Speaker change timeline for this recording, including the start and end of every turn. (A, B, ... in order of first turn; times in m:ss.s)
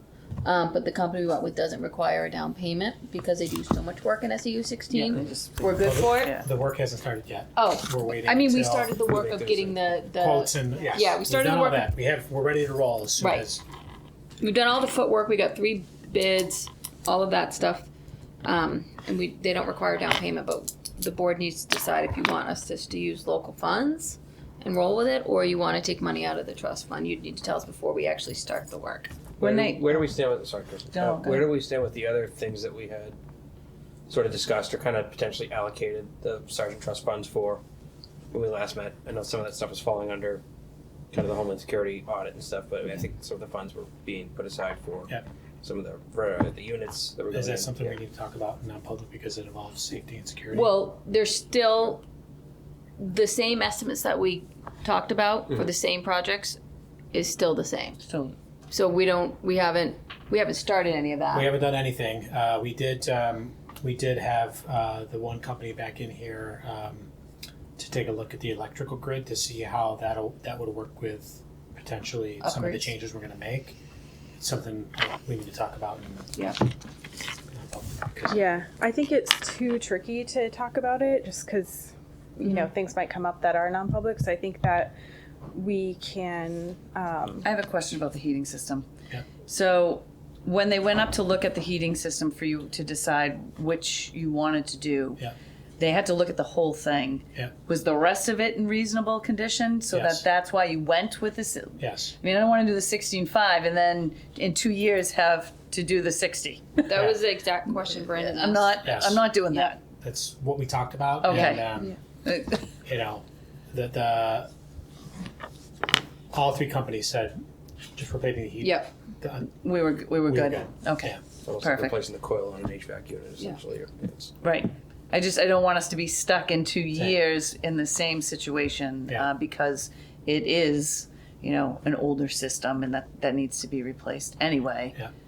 0:00.4-0:06.4 A
0:04.9-0:06.5 B
0:05.8-0:09.1 C
0:07.6-0:11.9 A
0:09.1-0:09.7 D
0:10.1-0:13.6 C
0:13.2-0:13.5 A
0:14.4-0:17.9 A
0:18.4-0:29.1 A
0:29.4-0:33.2 D
0:29.4-0:30.0 B
0:30.9-0:31.5 B
0:34.1-0:37.6 D
0:38.3-0:40.4 D
0:41.1-0:45.1 D
0:45.6-0:48.0 D
0:47.3-0:50.7 C
0:50.5-0:52.0 A
0:53.0-0:56.6 A
0:57.1-0:58.0 A
0:58.0-0:58.4 B
0:58.7-1:01.5 A
1:01.3-1:07.1 C
1:07.8-1:13.8 C
1:12.4-1:12.9 A
1:14.4-1:16.4 C
1:17.5-1:18.4 C
1:18.3-1:25.0 E
1:25.5-1:27.5 E
1:27.4-1:28.9 B
1:29.5-1:35.2 B
1:35.8-1:46.9 B
1:39.9-1:40.2 C
1:41.8-1:42.1 C
1:46.8-1:48.8 A
1:48.2-1:49.8 B
1:48.8-1:49.2 C
1:50.0-1:52.0 C
1:51.2-1:52.6 B
1:52.8-1:54.5 C
1:56.3-1:57.4 C
1:58.0-1:59.5 C
1:58.6-1:58.9 A
1:59.5-2:02.0 B
2:00.3-2:01.2 C
2:01.4-2:04.3 D
2:04.4-2:15.0 B